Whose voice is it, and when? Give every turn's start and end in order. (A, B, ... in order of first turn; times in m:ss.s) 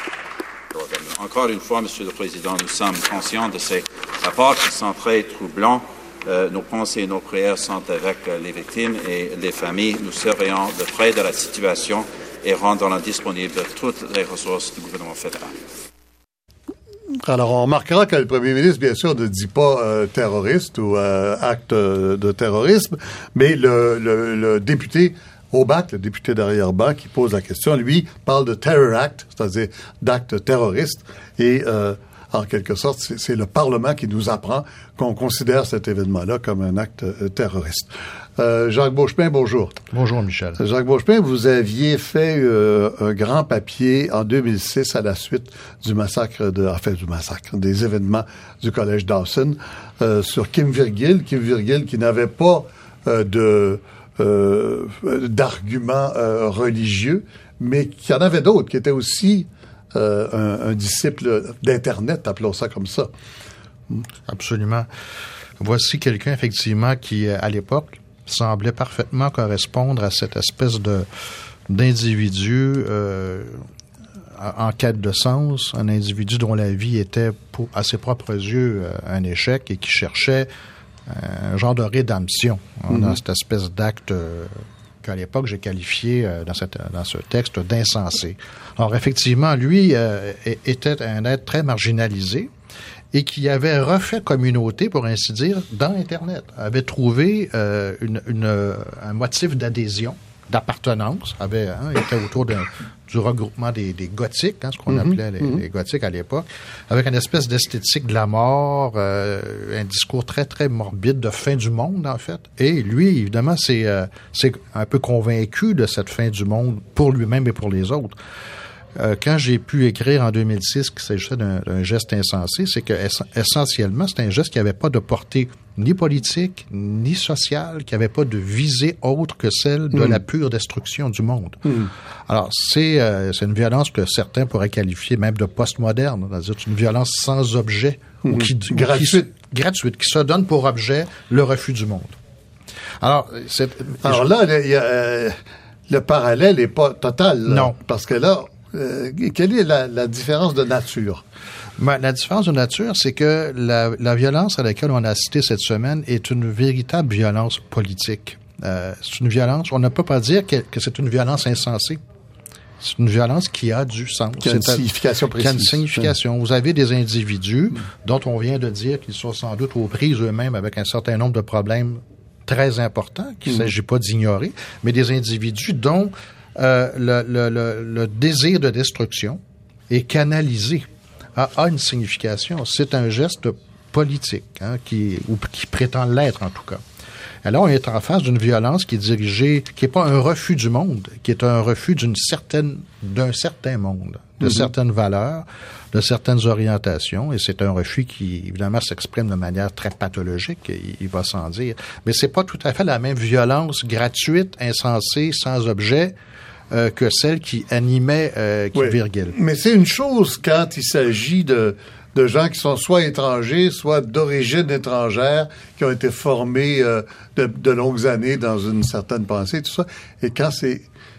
0:00.7-0:15.6 A
0:17.2-0:39.8 B
0:39.9-0:40.6 C
0:40.6-1:03.1 B
1:04.3-1:04.9 C
1:05.6-1:11.1 C
1:11.7-1:13.6 C
1:14.3-1:20.5 C
1:21.1-1:32.5 C
1:22.9-1:23.2 B
1:33.1-1:58.2 C
1:44.9-1:45.6 B
1:59.0-2:11.6 C
2:09.9-2:10.2 B
2:11.6-2:11.9 B
2:12.3-2:22.2 C
2:18.2-2:19.3 B
2:23.0-2:24.2 C
2:24.0-2:25.4 B
2:25.9-2:31.2 B
2:27.5-2:27.8 C
2:31.8-2:42.0 C
2:42.8-2:44.8 C
2:44.4-2:46.1 B
2:45.4-3:06.8 C
3:07.4-3:26.2 C
3:14.4-3:14.7 B
3:26.7-3:29.3 C
3:28.7-3:40.8 B